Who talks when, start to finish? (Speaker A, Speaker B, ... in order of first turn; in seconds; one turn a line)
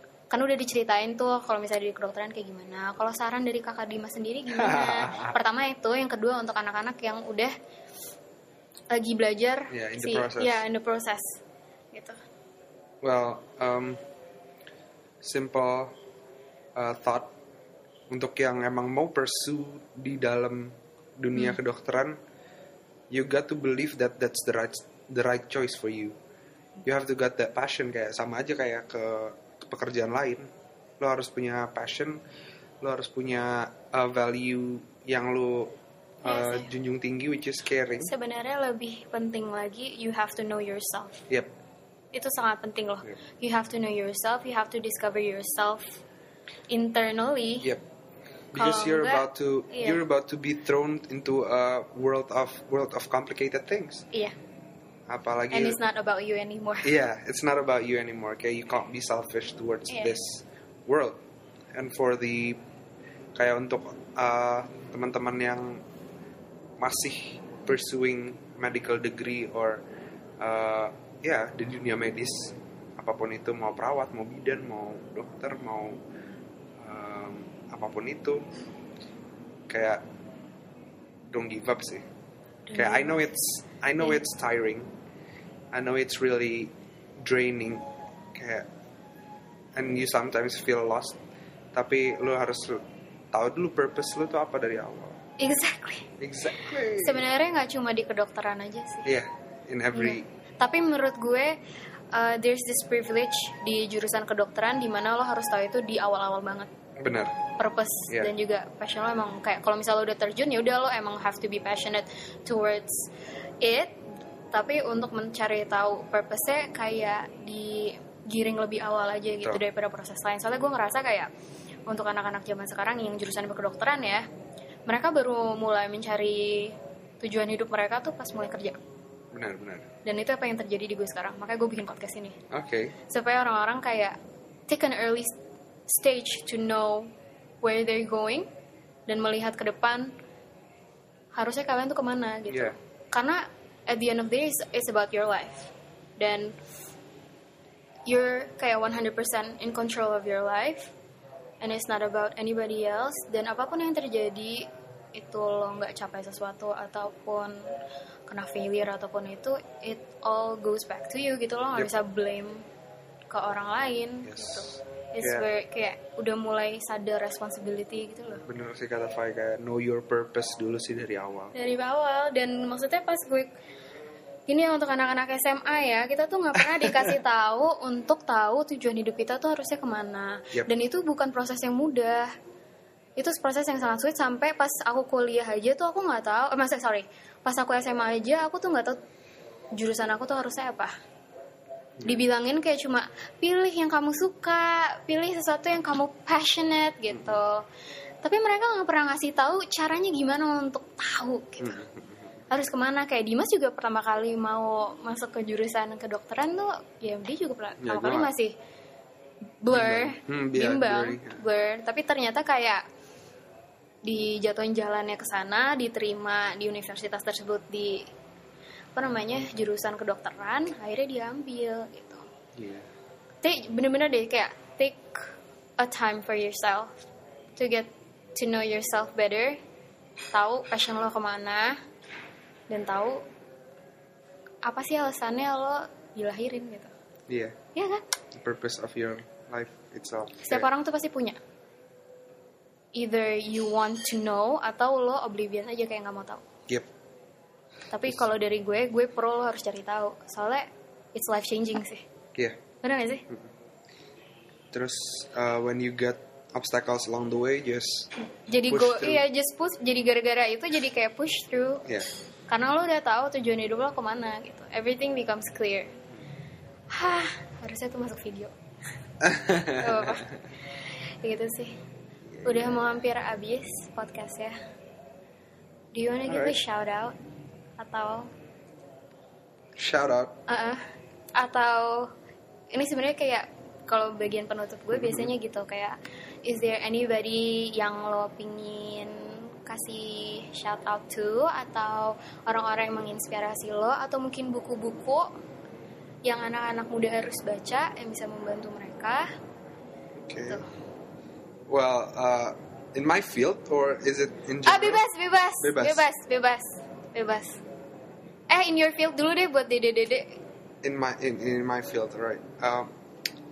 Speaker A: 0.3-7.5
Speaker B: 4.5-5.4
Speaker A: 8.9-11.4
Speaker B: 9.7-10.6
Speaker A: 11.9-12.2
Speaker B: 13.0-14.0
Speaker B: 15.2-15.9
Speaker B: 16.7-17.3
Speaker B: 18.1-22.2
Speaker B: 23.1-26.1
Speaker B: 26.8-30.5
Speaker B: 31.0-32.2
Speaker B: 32.8-38.1
Speaker A: 36.2-36.7
Speaker A: 38.0-41.2
Speaker A: 42.1-46.0
Speaker A: 46.7-47.7
Speaker B: 48.5-54.0
Speaker A: 48.5-50.0
Speaker B: 55.1-55.8
Speaker A: 55.5-56.9
Speaker B: 56.8-61.2
Speaker A: 59.9-60.2
Speaker B: 61.7-62.6
Speaker B: 63.4-65.8
Speaker B: 66.8-69.8
Speaker B: 70.4-76.0
Speaker B: 76.8-78.5
Speaker B: 79.7-80.0
Speaker B: 81.3-82.0
Speaker A: 82.7-83.2
Speaker B: 82.7-84.9
Speaker B: 85.7-88.7
Speaker B: 89.8-91.2
Speaker B: 91.7-95.2
Speaker A: 95.4-99.1
Speaker B: 96.2-97.2
Speaker B: 99.0-100.2
Speaker A: 99.9-101.5
Speaker A: 102.1-106.7
Speaker B: 107.0-107.3
Speaker A: 107.6-113.1
Speaker A: 113.6-114.0
Speaker A: 114.5-121.3
Speaker A: 121.9-124.3
Speaker A: 124.9-128.8
Speaker B: 129.3-129.9
Speaker A: 130.0-132.4
Speaker B: 132.5-132.9
Speaker A: 133.1-135.3
Speaker A: 135.9-138.5
Speaker A: 139.1-140.1
Speaker A: 141.3-146.6
Speaker B: 142.5-142.7
Speaker A: 148.1-150.9
Speaker A: 151.6-157.6
Speaker A: 158.3-162.6
Speaker A: 163.3-168.4
Speaker B: 164.2-165.4
Speaker B: 168.4-171.5
Speaker A: 171.5-173.5
Speaker A: 174.5-182.3
Speaker B: 176.6-177.1
Speaker A: 183.2-189.0
Speaker A: 189.7-190.9
Speaker B: 192.0-192.2
Speaker A: 192.0-197.6
Speaker B: 197.1-197.4
Speaker A: 198.2-201.8
Speaker B: 201.6-202.3
Speaker A: 202.5-208.5
Speaker B: 207.8-208.3
Speaker A: 209.6-212.8
Speaker B: 209.7-211.4
Speaker A: 214.0-218.1
Speaker A: 218.9-222.2
Speaker B: 222.6-222.9
Speaker A: 223.4-225.2
Speaker A: 225.8-227.0
Speaker A: 227.6-229.6
Speaker A: 230.3-231.8
Speaker A: 232.7-233.2
Speaker A: 234.6-236.9
Speaker B: 237.3-237.6
Speaker A: 237.7-238.0
Speaker B: 238.3-240.7
Speaker A: 240.4-241.4
Speaker A: 242.9-246.4
Speaker A: 247.9-252.0
Speaker A: 252.8-253.2
Speaker B: 254.7-258.1
Speaker A: 258.2-261.8
Speaker B: 258.7-259.2
Speaker A: 262.5-265.9
Speaker A: 266.9-268.5
Speaker B: 269.2-270.4
Speaker A: 269.6-271.8
Speaker B: 272.3-272.9
Speaker A: 272.4-274.6
Speaker A: 275.9-277.2
Speaker B: 276.3-276.6
Speaker A: 277.8-278.3
Speaker B: 279.8-280.4
Speaker A: 280.5-282.1
Speaker A: 282.7-295.3
Speaker B: 284.9-285.3
Speaker A: 296.2-299.3
Speaker B: 300.2-300.6
Speaker B: 301.7-305.0
Speaker A: 304.6-307.6
Speaker B: 305.6-306.1
Speaker A: 308.5-310.4
Speaker B: 310.8-312.9